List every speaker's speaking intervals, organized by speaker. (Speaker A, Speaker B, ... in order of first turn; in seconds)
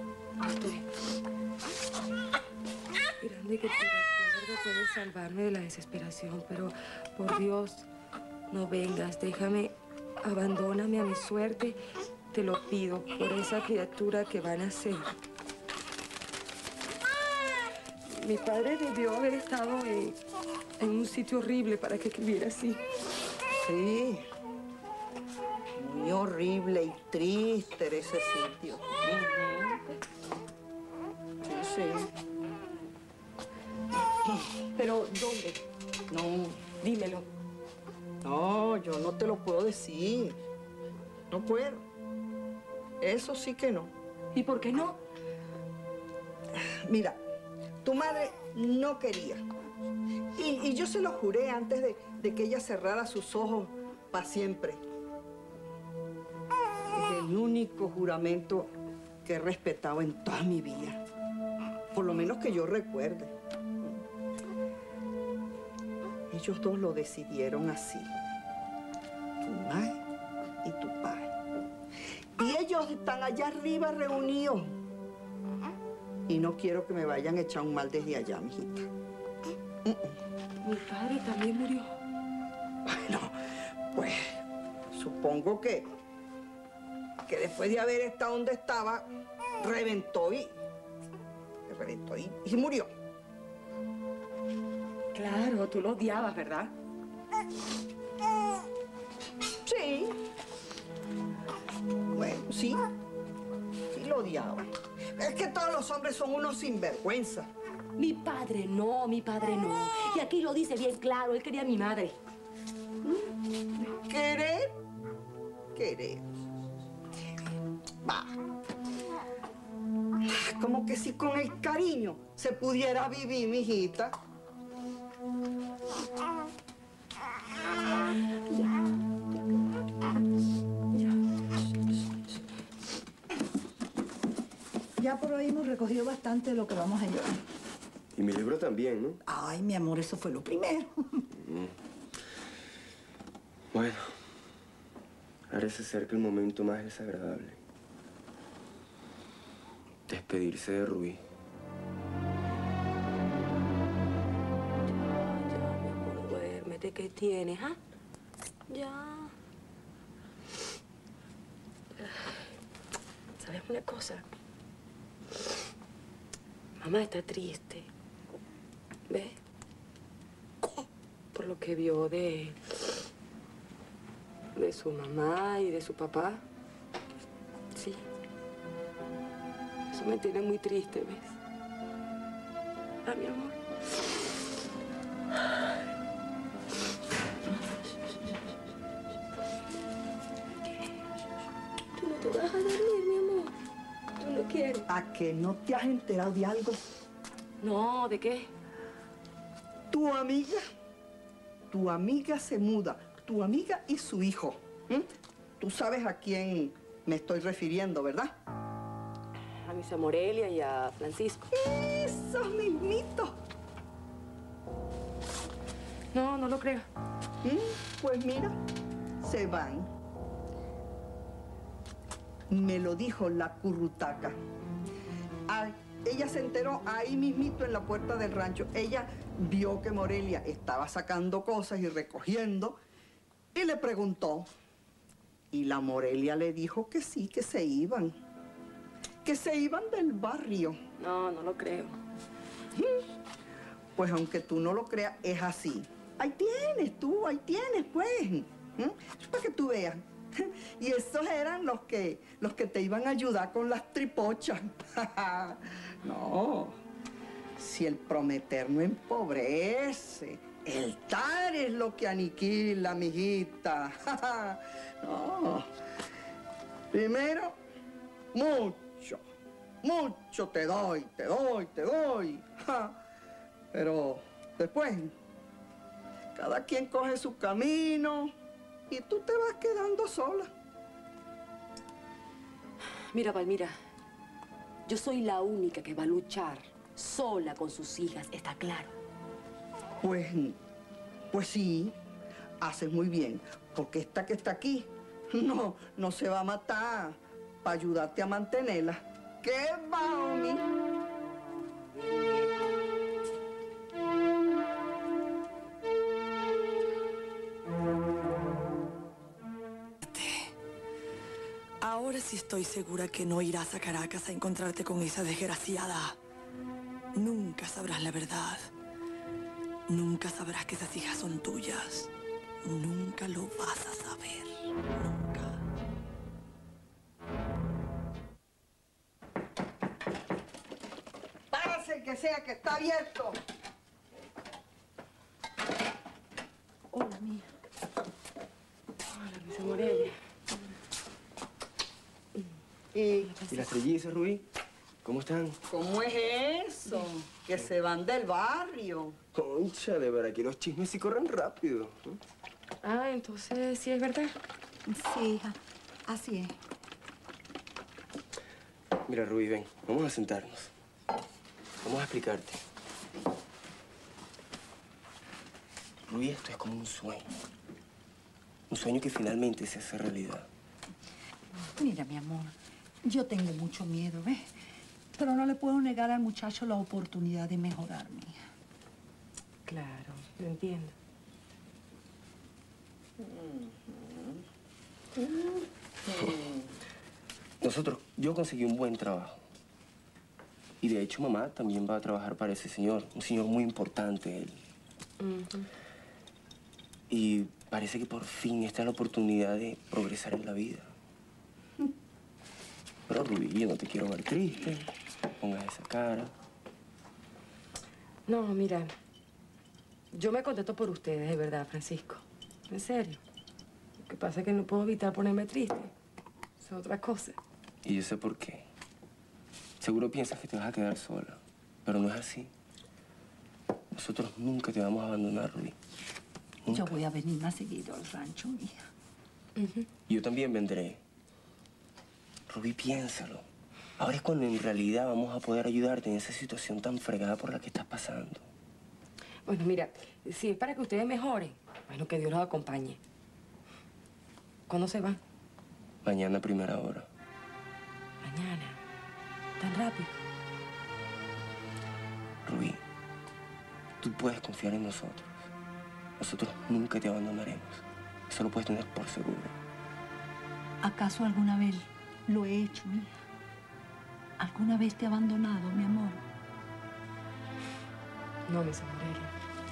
Speaker A: 0.4-0.8, 3.2-7.9, 8.5-11.8, 12.3-15.1, 18.1-20.2, 20.8-22.8, 34.8-35.6, 36.8-37.2, 44.3-45.0, 80.6-82.0, 95.1-96.7, 108.0-112.2, 154.9-157.8, 158.7-159.3, 162.0-162.4, 163.4-164.2, 166.8-167.9, 169.1-169.4, 170.6-172.8, 174.5-176.4, 177.7-178.0, 179.9-181.3, 183.0-183.6, 191.9-193.5, 194.2-194.8, 197.6-198.5, 209.6-211.5, 216.1-216.9, 241.0-242.0, 283.1-283.8, 284.9-288.9, 339.1-340.1, 352.8-354.3, 379.6-380.9, 395.2-395.7, 408.3-408.9, 410.1-413.2, 414.0-415.9, 416.6-417.4, 429.6-429.9, 439.4-443.0, 444.7-445.2, 448.2-448.8, 449.6-450.2, 468.4-469.3
Speaker B: 23.6-24.3, 25.8-29.1, 31.4-32.1, 36.1-36.6, 38.2-40.4, 41.3-41.8, 43.0-43.9, 46.8-47.2, 47.8-49.4, 50.4-54.8, 56.9-58.7, 59.2-61.0, 61.9-64.0, 66.3-68.1, 69.4-70.0, 70.6-71.3, 72.4-74.7, 76.3-78.9, 79.8-80.2, 82.8-83.3, 83.9-84.4, 84.9-85.8, 87.3-89.0, 89.6-90.5, 91.7-92.9, 99.6-100.1, 102.1-102.8, 103.9-107.5, 113.8-114.7, 115.7-116.3, 118.0-118.3, 120.3-124.1, 194.9-196.8, 199.9-200.6, 201.7-205.1, 205.6-208.3, 211.5-213.3, 217.4-218.6, 219.2-219.9, 222.5-224.4, 225.5-232.8, 233.5-234.5, 235.5-238.2, 239.2-240.8, 243.9-256.8, 257.6-265.7, 266.9-267.6, 268.3-269.2, 269.8-272.9, 273.7-275.1, 276.3-278.3, 278.9-280.5, 290.0-290.6, 291.3-291.9, 292.6-300.6, 331.5-333.4, 342.9-343.3, 345.7-349.2, 383.2-384.4, 385.2-385.5, 386.1-386.7
Speaker C: 135.0-137.4, 139.3-140.9, 336.9-337.4, 354.9-355.6, 356.1-356.5, 371.8-374.5, 375.2-378.4, 426.7-428.8, 460.8-463.1, 464.4-466.2
Speaker D: 138.1-139.2, 141.4-141.7, 143.7-144.2, 145.5-147.6, 150.1-151.2, 343.5-344.4, 345.0-345.6, 349.3-352.2, 359.1-360.7, 361.8-362.6, 366.1-367.3, 368.7-370.5, 387.6-389.4, 390.8-394.6, 397.1-400.9, 403.1-404.9, 405.4-406.3, 417.8-418.6, 419.8-422.5, 423.9-425.8, 426.6-427.0, 430.1-431.0, 432.5-433.4, 434.0-438.4, 446.0-447.1, 452.4-452.8, 454.0-455.4, 456.2-459.5
Speaker E: 310.0-310.5, 311.8-316.2, 317.1-318.7, 319.9-322.1, 322.6-325.6